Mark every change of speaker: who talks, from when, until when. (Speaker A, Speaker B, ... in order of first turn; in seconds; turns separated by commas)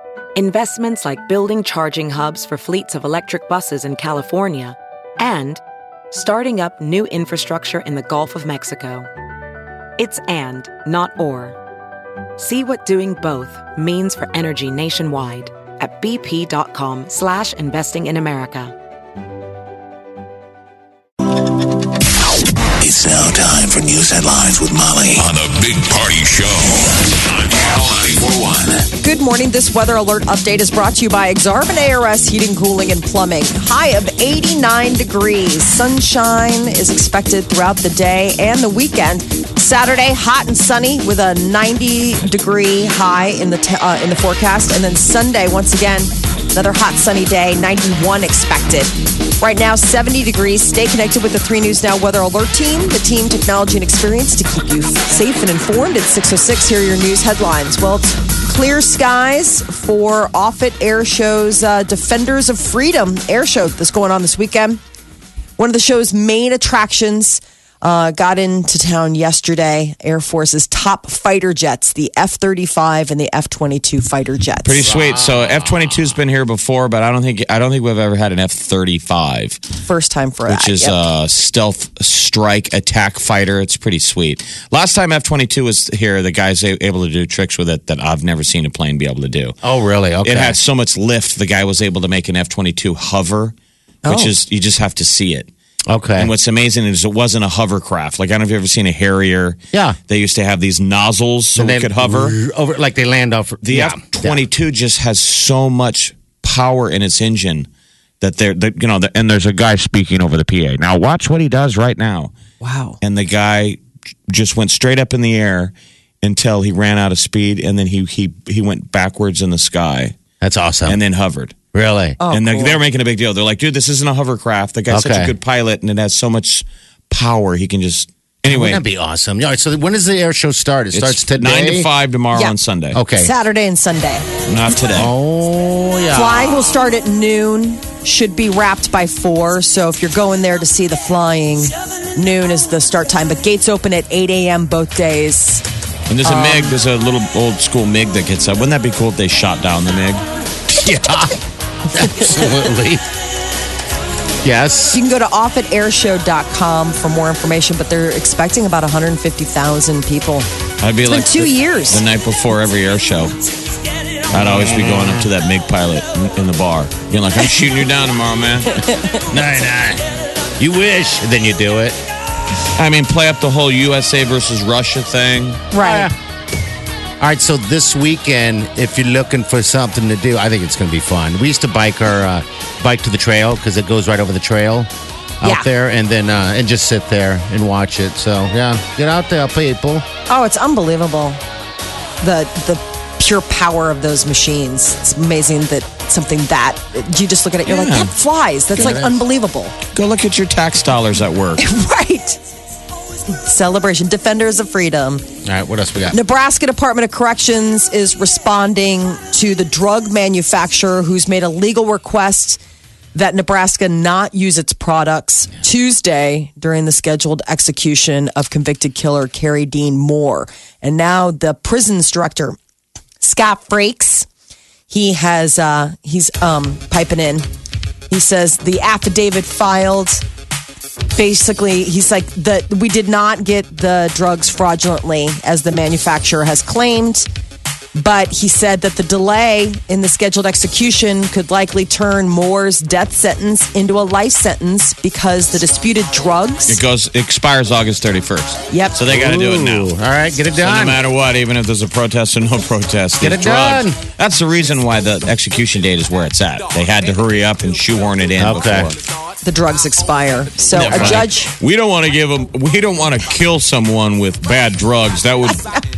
Speaker A: 0.3-9.1, Speaker A: 10.0-11.6, Speaker A: 12.4-18.7, Speaker B: 22.8-28.9, Speaker C: 29.0-64.8, Speaker C: 65.6-74.8, Speaker D: 74.6-79.6, Speaker E: 74.8-76.1, Speaker C: 79.8-81.0, Speaker D: 80.5-89.6, Speaker E: 89.6-90.6, Speaker D: 90.2-93.5, Speaker C: 94.0-94.3, Speaker D: 94.1-95.5, Speaker E: 95.9-96.3, Speaker D: 96.2-102.4, Speaker E: 101.5-104.4, Speaker D: 103.6-107.7, Speaker D: 108.2-112.3, Speaker C: 112.6-113.0, Speaker D: 113.0-120.2, Speaker E: 120.4-121.0, Speaker D: 120.9-121.6, Speaker E: 121.7-122.2, Speaker C: 122.2-122.8, Speaker D: 122.3-128.8, Speaker E: 124.9-125.3, Speaker E: 128.5-131.9, Speaker D: 130.9-133.0, Speaker E: 132.9-133.3, Speaker C: 133.2-134.3, Speaker D: 134.5-135.1, Speaker E: 134.9-136.7, Speaker C: 136.1-145.6, Speaker D: 146.1-150.2, Speaker C: 146.2-146.8, Speaker E: 150.7-153.0, Speaker E: 154.4-155.0, Speaker C: 154.9-160.5, Speaker D: 160.8-163.3, Speaker C: 161.1-162.0, Speaker E: 164.3-165.3, Speaker D: 164.3-168.9, Speaker C: 168.8-169.2, Speaker E: 169.3-170.0, Speaker E: 170.6-172.0, Speaker D: 172.8-175.7, Speaker C: 175.7-176.1, Speaker E: 175.8-176.1, Speaker E: 177.2-184.9, Speaker E: 185.4-190.1, Speaker C: 190.3-191.4, Speaker C: 192.2-199.8, Speaker D: 197.7-198.1, Speaker E: 198.7-199.2, Speaker D: 199.9-201.6, Speaker C: 201.6-202.4, Speaker C: 203.4-205.2, Speaker E: 205.4-206.2, Speaker C: 206.1-212.6, Speaker C: 213.2-222.6, Speaker C: 223.2-224.3, Speaker C: 224.9-227.5, Speaker C: 228.1-230.2, Speaker C: 231.2-237.3, Speaker C: 237.9-246.8, Speaker D: 246.7-249.9, Speaker C: 248.7-249.0, Speaker E: 249.0-251.0, Speaker D: 250.6-259.0, Speaker E: 253.2-254.0, Speaker E: 258.4-258.9, Speaker C: 259.4-261.5, Speaker D: 260.7-265.7, Speaker E: 260.9-261.3